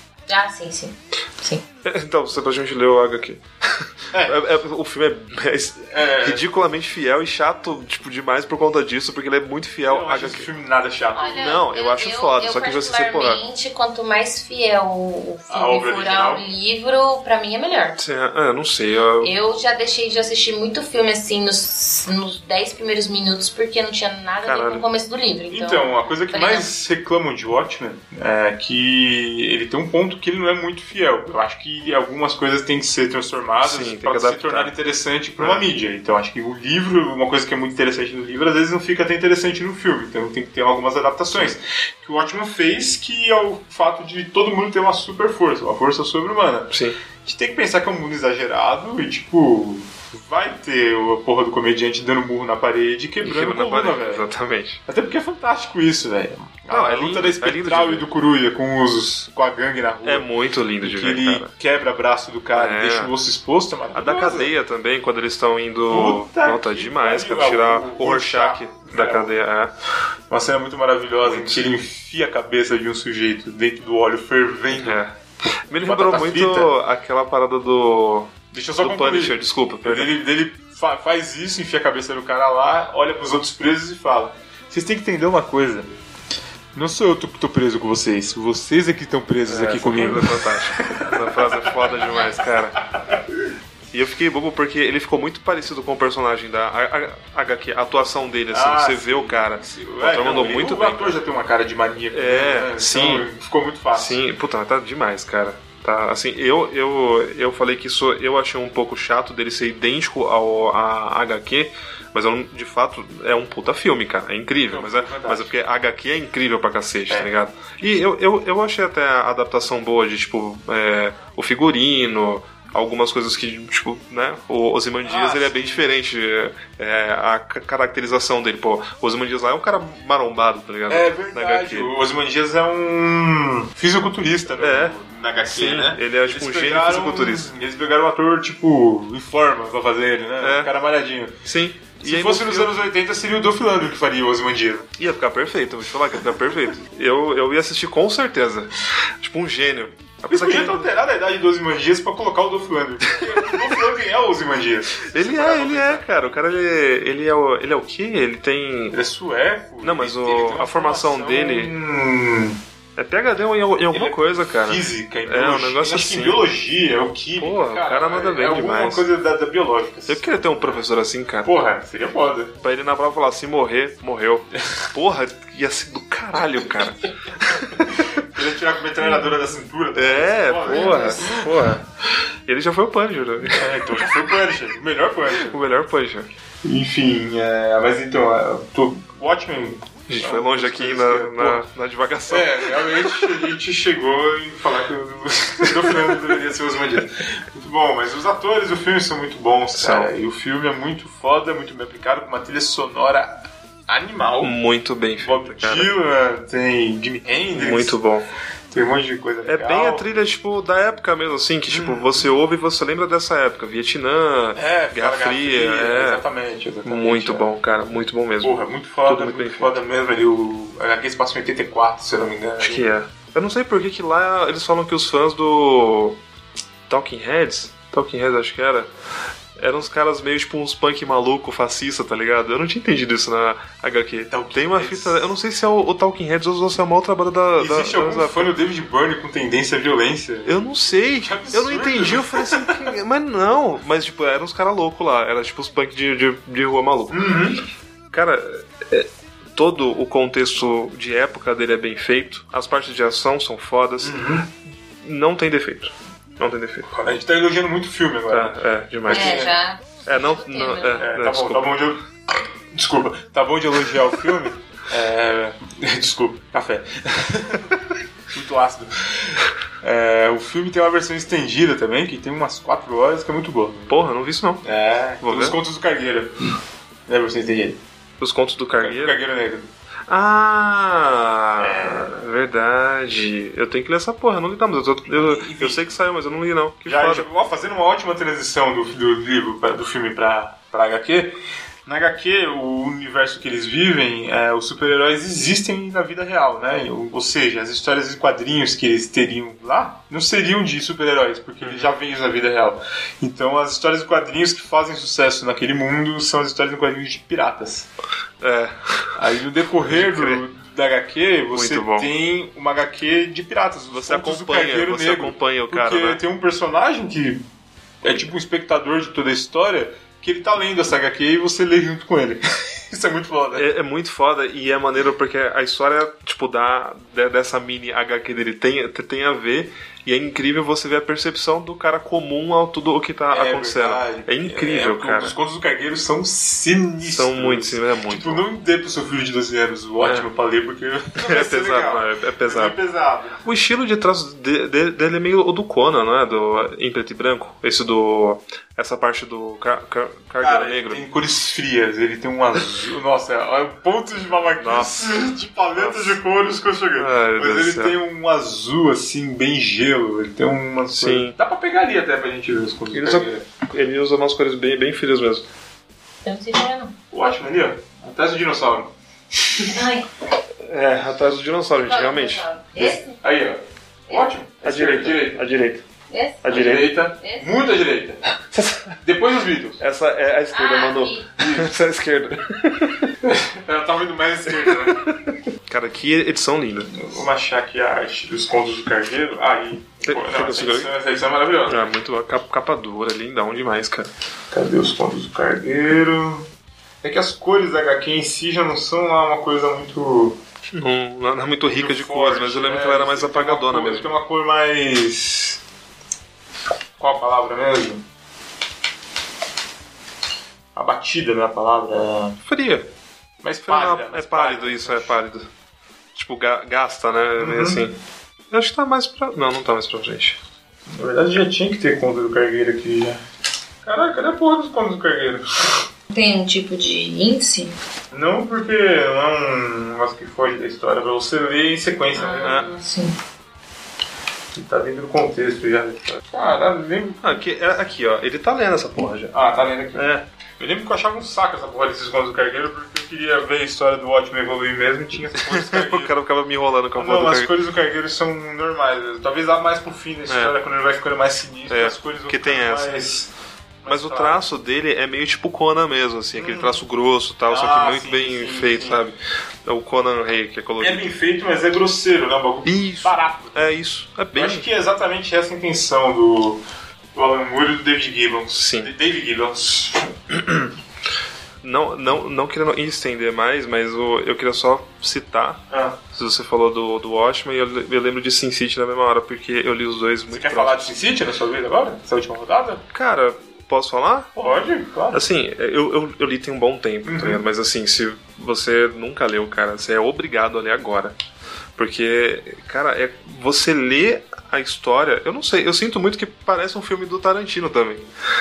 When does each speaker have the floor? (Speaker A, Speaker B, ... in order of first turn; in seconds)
Speaker A: 0.3-1.6, 11.2-18.0, 19.2-26.7, 180.7-181.3, 259.1-261.1, 366.2-367.0, 369.7-370.1, 371.8-373.2, 376.1-376.6, 377.2-377.5, 380.5-381.3, 426.1-427.7, 432.2-433.1
Speaker B: 1.8-10.5, 11.3-13.4, 18.0-19.3, 24.4-24.9, 33.6-34.7, 35.4-35.7, 46.7-47.0, 53.2-54.8, 56.7-58.1, 60.0-61.5, 62.5-63.1, 63.9-69.7, 71.2-71.7, 74.7-75.2, 75.7-80.1, 89.5-92.9, 93.9-101.2, 102.1-103.3, 103.9-131.9, 134.6-137.6, 140.4-140.7, 141.4-142.8, 145.0-150.9, 155.1-159.0, 159.8-161.7, 163.0-166.5, 167.4-169.1, 170.1-171.5, 172.6-178.1, 179.9-181.8, 182.5-184.1, 185.3-186.3, 190.1-193.4, 199.8-200.1, 204.4-205.9, 207.5-208.3, 209.4-216.2, 216.8-219.8, 222.6-226.2, 226.9-228.9, 229.6-238.5, 240.5-247.6, 248.1-254.4, 255.0-256.9, 258.3-259.5, 260.1-261.8, 273.9-274.6, 275.2-275.6, 278.2-279.2, 280.1-287.3, 301.6-301.9, 308.4-309.1, 309.8-310.4, 311.5-312.1, 313.9-316.2, 323.6-335.4, 337.1-338.4, 341.2-342.8, 343.4-351.0, 354.6-356.2, 357.0-358.0, 360.9-361.4, 362.9-365.5, 370.6-372.5, 374.6-375.8, 376.4-376.9, 378.5-379.0, 379.8-383.1, 384.6-386.9, 390.0-390.9, 391.7-394.1, 400.7-404.1, 412.4-412.9, 413.7-415.5, 416.1-418.0, 418.5-420.4, 432.4-432.7, 437.2-439.4, 439.9-440.2, 445.4-447.6, 450.3-450.6, 451.7-452.9, 453.9-461.1, 462.6-464.7, 468.5-468.9, 471.6-480.9, 482.9-484.4, 485.1-491.2, 491.8-498.1
Speaker C: 4.1-4.4, 5.9-6.4, 9.9-11.4, 15.5-16.4, 25.5-46.7, 47.2-54.3, 54.9-60.3, 60.8-64.5, 65.9-69.3, 70.3-75.0, 75.8-76.7, 78.5-85.9, 86.8-91.7, 98.5-104.2, 114.7-115.5, 125.0-125.8, 130.9-141.3, 142.0-144.9, 150.3-156.1, 158.9-162.6, 163.9-170.8, 171.4-172.6, 177.8-181.5, 183.5-185.6, 186.6-191.7, 192.3-204.6, 205.2-208.0, 208.7-210.1, 211.7-212.3, 214.6-217.5, 218.4-222.9, 234.3-235.3, 237.6-242.9, 247.1-247.6, 254.0-254.4, 256.9-259.5, 261.0-262.1, 262.7-267.7, 268.3-274.0, 274.6-276.3, 277.1-277.8, 278.8-279.7, 281.6-282.1, 285.1-285.9, 286.9-307.9, 309.2-317.5, 318.0-323.7, 333.3-343.4, 350.4-363.5, 367.1-368.9, 372.8-375.4, 376.5-378.2, 379.0-379.8, 381.4-381.7, 383.2-385.0, 386.9-391.9, 394.5-396.5, 397.0-400.4, 401.7-405.6, 407.0-408.1, 410.8-412.4, 413.4-415.2, 417.4-417.9, 420.9-423.2, 423.9-425.8, 428.1-432.6, 434.6-437.3, 439.3-440.1, 440.6-446.1, 447.0-453.3, 453.8-454.5, 456.4-456.8, 457.5-459.0, 460.8-463.7, 464.3-466.6, 467.1-470.0, 475.7-476.0, 480.3-482.8, 484.4-485.2, 487.1-487.4